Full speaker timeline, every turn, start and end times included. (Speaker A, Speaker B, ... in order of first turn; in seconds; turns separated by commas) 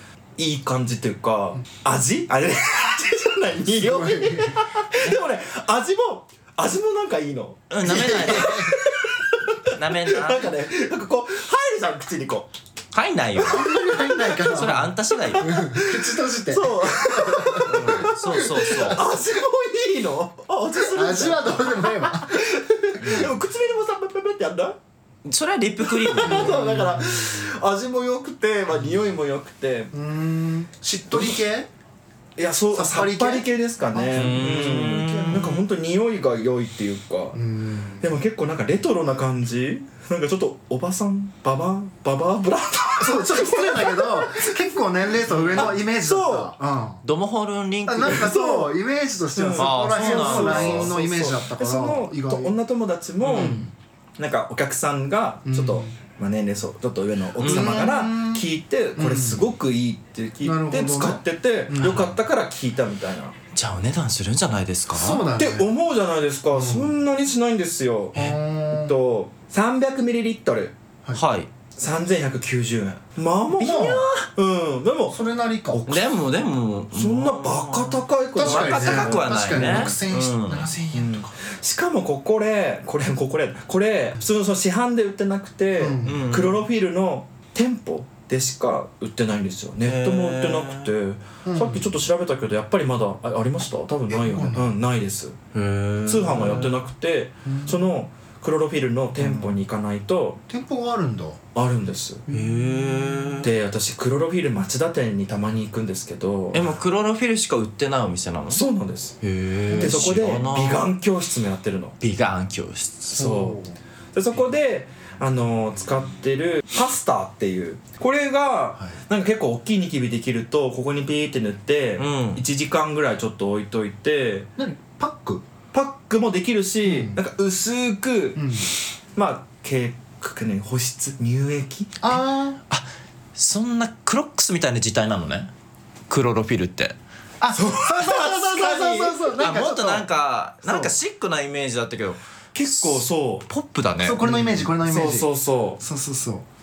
Speaker A: 0.4-12.5, Speaker B: 3.8-4.6, Speaker C: 7.7-8.8, Speaker B: 7.8-8.8, Speaker C: 9.7-10.5, Speaker C: 12.9-15.6, Speaker B: 13.4-19.0, Speaker A: 15.4-24.8, Speaker C: 17.6-19.0, Speaker B: 20.9-22.6, Speaker C: 23.0-23.3, Speaker C: 25.2-26.6, Speaker A: 25.8-29.9, Speaker B: 26.2-27.5, Speaker B: 29.9-31.7, Speaker A: 31.1-31.4, Speaker A: 32.4-37.4, Speaker B: 32.7-35.3, Speaker C: 34.1-35.6, Speaker B: 37.3-38.1, Speaker A: 38.0-44.7, Speaker B: 43.0-47.0, Speaker C: 45.3-45.7, Speaker A: 45.5-46.5, Speaker C: 47.0-48.3, Speaker B: 47.9-52.5, Speaker A: 48.0-48.7, Speaker A: 49.3-53.6, Speaker C: 49.5-50.9, Speaker C: 53.2-53.6, Speaker B: 53.3-53.7, Speaker A: 54.2-63.4, Speaker B: 55.5-56.0, Speaker C: 57.4-57.8, Speaker B: 57.4-58.5, Speaker B: 59.0-59.5, Speaker B: 60.4-62.0, Speaker C: 61.8-62.1, Speaker C: 63.5-65.2, Speaker B: 64.9-65.7, Speaker A: 65.3-70.7, Speaker B: 66.5-66.9, Speaker B: 68.1-68.9, Speaker C: 71.1-71.5, Speaker A: 71.8-75.2, Speaker B: 73.6-74.1, Speaker C: 73.6-74.2, Speaker B: 75.1-75.8, Speaker A: 75.7-76.2, Speaker C: 75.9-80.7, Speaker A: 76.9-80.0, Speaker B: 78.3-81.3, Speaker A: 80.9-95.4, Speaker B: 85.8-86.3, Speaker C: 86.0-86.6, Speaker C: 89.8-90.9, Speaker B: 91.4-91.9, Speaker B: 94.1-94.7, Speaker C: 95.5-96.8, Speaker A: 96.0-100.4, Speaker B: 97.4-97.8, Speaker B: 99.2-99.5, Speaker B: 100.5-101.4, Speaker A: 101.5-102.2, Speaker B: 102.3-103.4, Speaker C: 102.3-103.5, Speaker A: 103.4-106.7, Speaker C: 106.5-108.6, Speaker A: 108.5-109.2, Speaker C: 109.2-110.9, Speaker B: 109.7-110.0, Speaker A: 109.7-112.0, Speaker C: 112.0-113.1, Speaker A: 113.1-113.6, Speaker B: 113.1-113.8, Speaker A: 114.1-124.5, Speaker C: 122.0-122.4, Speaker B: 124.6-125.4, Speaker A: 125.7-128.4, Speaker B: 126.8-127.2, Speaker B: 128.3-128.7, Speaker A: 129.1-132.0, Speaker B: 132.0-132.6, Speaker C: 132.7-135.5, Speaker C: 136.1-136.9, Speaker B: 137.4-140.1, Speaker A: 137.5-139.3, Speaker C: 139.4-144.2, Speaker B: 140.6-140.9, Speaker A: 142.5-143.5, Speaker B: 144.0-145.3, Speaker A: 144.2-145.8, Speaker B: 145.8-146.4